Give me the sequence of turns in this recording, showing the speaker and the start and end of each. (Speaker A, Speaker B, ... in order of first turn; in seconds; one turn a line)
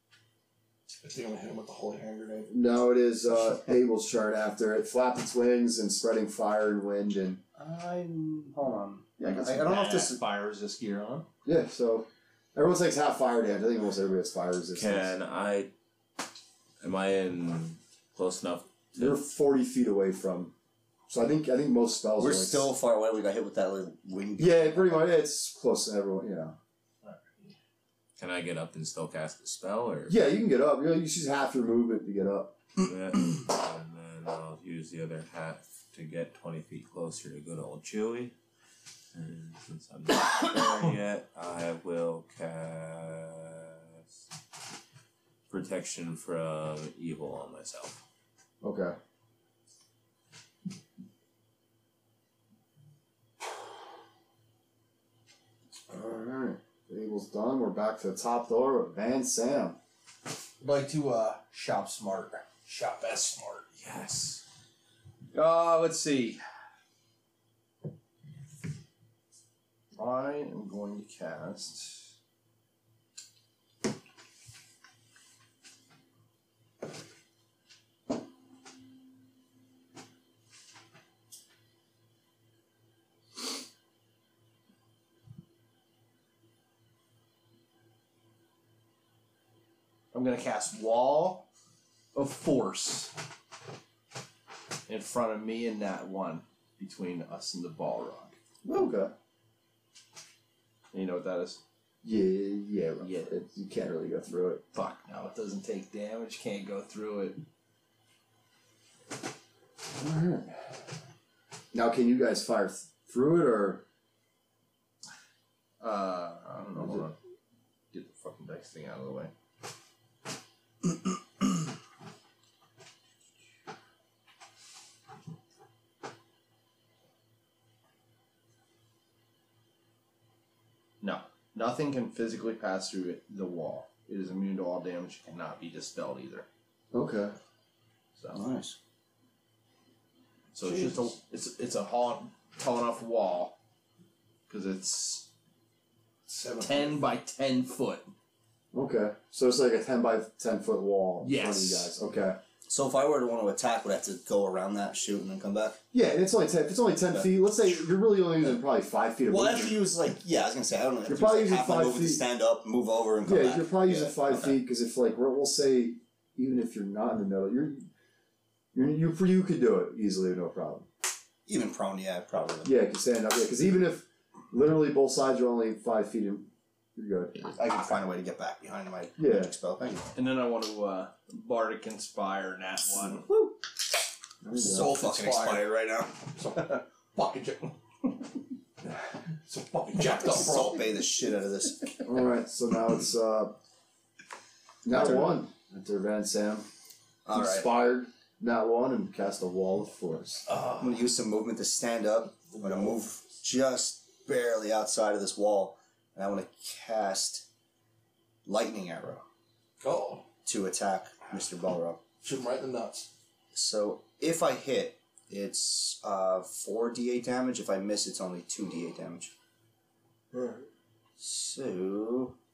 Speaker A: 1.0-2.5
Speaker B: 2.5-7.4
Speaker C: 7.6-10.2
Speaker D: 9.2-11.3
Speaker B: 11.4-15.1
Speaker E: 14.7-15.7
Speaker E: 16.8-19.2
Speaker B: 18.9-20.5
Speaker B: 21.1-22.7
Speaker C: 22.2-25.1
Speaker B: 24.4-26.6
Speaker D: 27.1-27.5
Speaker E: 28.2-30.1
Speaker B: 30.1-32.6
Speaker E: 32.8-38.3
Speaker E: 39.1-44.2
Speaker E: 45.5-48.0
Speaker B: 48.6-49.0
Speaker B: 55.9-59.8
Speaker D: 60.6-63.7
Speaker E: 63.8-64.4
Speaker D: 65.3-66.4
Speaker D: 70.0-72.1
Speaker D: 90.1-91.5
Speaker D: 92.1-93.1
Speaker D: 94.9-98.4
Speaker B: 98.6-99.1
Speaker D: 100.9-101.6
Speaker B: 102.0-104.6
Speaker D: 103.0-103.4
Speaker D: 104.7-107.4
Speaker B: 110.0-110.7
Speaker B: 111.7-113.8
Speaker D: 115.8-117.2
Speaker D: 117.9-119.3
Speaker D: 131.0-136.5
Speaker B: 136.9-137.4
Speaker C: 138.3-138.8
Speaker D: 140.5-143.6
Speaker A: 140.6-141.1
Speaker D: 144.5-145.3
Speaker A: 146.3-147.0
Speaker D: 146.6-148.1
Speaker B: 148.7-152.4
Speaker D: 151.2-151.9
Speaker C: 152.7-155.8
Speaker B: 155.9-159.9
Speaker C: 159.3-164.5
Speaker B: 161.1-162.2
Speaker B: 163.2-167.9
Speaker B: 168.7-170.9
Speaker C: 171.5-172.7
Speaker B: 172.6-177.5
Speaker C: 177.5-180.1
Speaker B: 179.2-179.5
Speaker D: 180.1-183.2
Speaker B: 184.4-184.9
Speaker A: 184.6-185.8
Speaker C: 184.6-186.1
Speaker A: 186.3-187.7
Speaker A: 189.5-190.9
Speaker C: 190.2-192.1
Speaker B: 192.0-193.6
Speaker B: 194.8-196.7
Speaker C: 194.9-195.4
Speaker C: 197.3-197.7
Speaker B: 197.3-200.5
Speaker C: 200.8-207.4
Speaker A: 202.5-203.0
Speaker C: 208.5-209.2
Speaker A: 209.8-210.3
Speaker C: 210.4-212.0
Speaker A: 212.2-213.1
Speaker C: 213.5-219.3
Speaker C: 221.2-222.3